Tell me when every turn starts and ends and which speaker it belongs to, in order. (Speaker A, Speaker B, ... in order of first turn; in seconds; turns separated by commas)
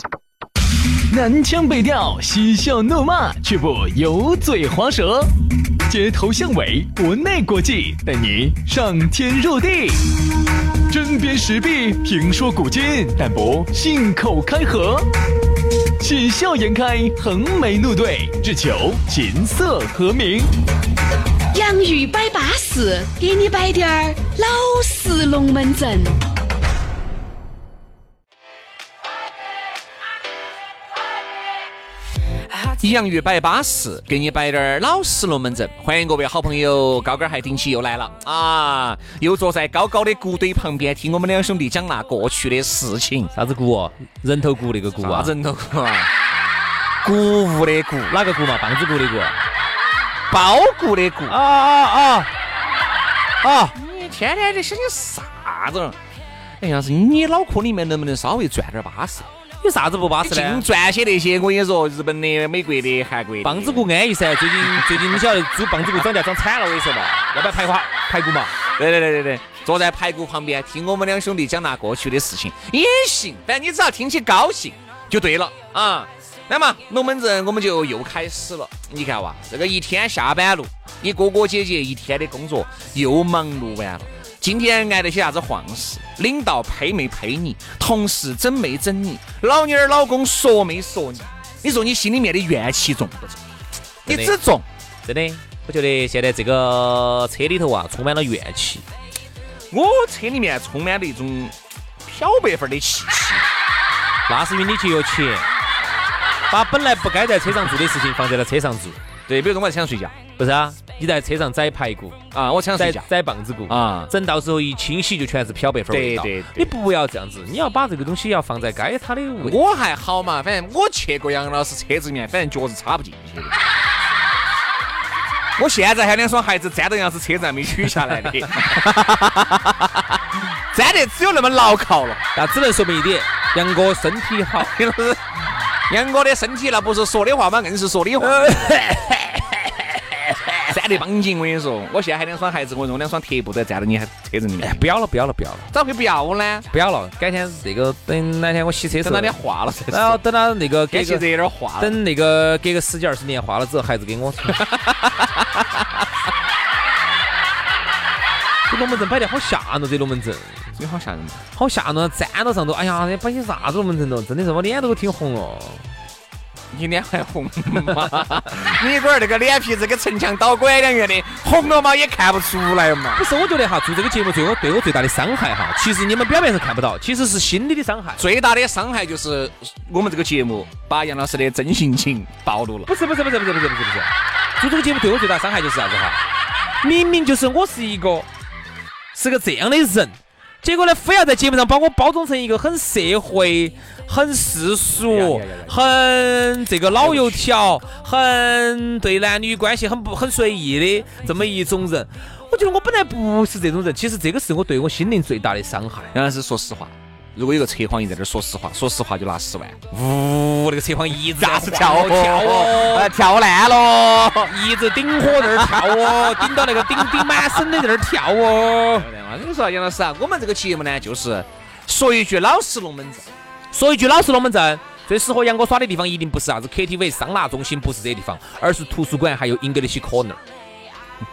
Speaker A: 1.1-5.3, Speaker A: 5.9-10.1, Speaker A: 10.9-15.1, Speaker A: 16.0-20.5, Speaker B: 21.5-26.2, Speaker C: 32.8-43.3, Speaker D: 43.4-45.3, Speaker C: 45.0-46.1, Speaker C: 47.0-48.2, Speaker D: 48.1-49.4, Speaker C: 50.3-51.4, Speaker D: 51.3-52.3, Speaker D: 53.4-53.8, Speaker C: 53.8-56.0, Speaker C: 56.6-59.3, Speaker D: 59.6-60.6, Speaker C: 60.2-63.9, Speaker D: 63.4-68.5, Speaker C: 64.8-65.1, Speaker C: 68.8-93.4, Speaker C: 94.0-94.7, Speaker D: 94.1-94.4, Speaker D: 95.0-98.9, Speaker C: 99.7-103.5, Speaker D: 104.3-105.5, Speaker D: 106.5-109.0, Speaker C: 109.3-110.2, Speaker D: 110.4-112.2, Speaker C: 112.3-113.1, Speaker D: 112.8-119.6, Speaker C: 113.7-114.1, Speaker C: 115.9-116.7, Speaker C: 119.4-123.6, Speaker C: 125.6-132.2, Speaker D: 132.3-134.8, Speaker C: 134.6-135.4, Speaker C: 135.9-138.7, Speaker D: 138.2-140.7, Speaker C: 140.7-144.8, Speaker D: 144.6-145.7, Speaker C: 145.7-146.7, Speaker D: 146.7-149.4, Speaker C: 149.0-150.2, Speaker D: 149.9-154.7, Speaker C: 150.9-152.0, Speaker C: 154.5-155.8, Speaker D: 158.7-160.8, Speaker C: 160.8-161.4, Speaker D: 161.6-165.9, Speaker C: 166.7-173.2, Speaker D: 173.2-178.2, Speaker C: 178.2-182.9, Speaker D: 182.9-186.2, Speaker D: 186.8-188.3, Speaker D: 189.1-206.1, Speaker C: 195.1-195.8, Speaker C: 196.9-197.5, Speaker C: 206.1-209.8, Speaker D: 209.9-213.1, Speaker C: 211.3-214.5, Speaker D: 214.4-219.1, Speaker C: 215.4-217.6, Speaker C: 218.9-223.3, Speaker D: 223.7-230.4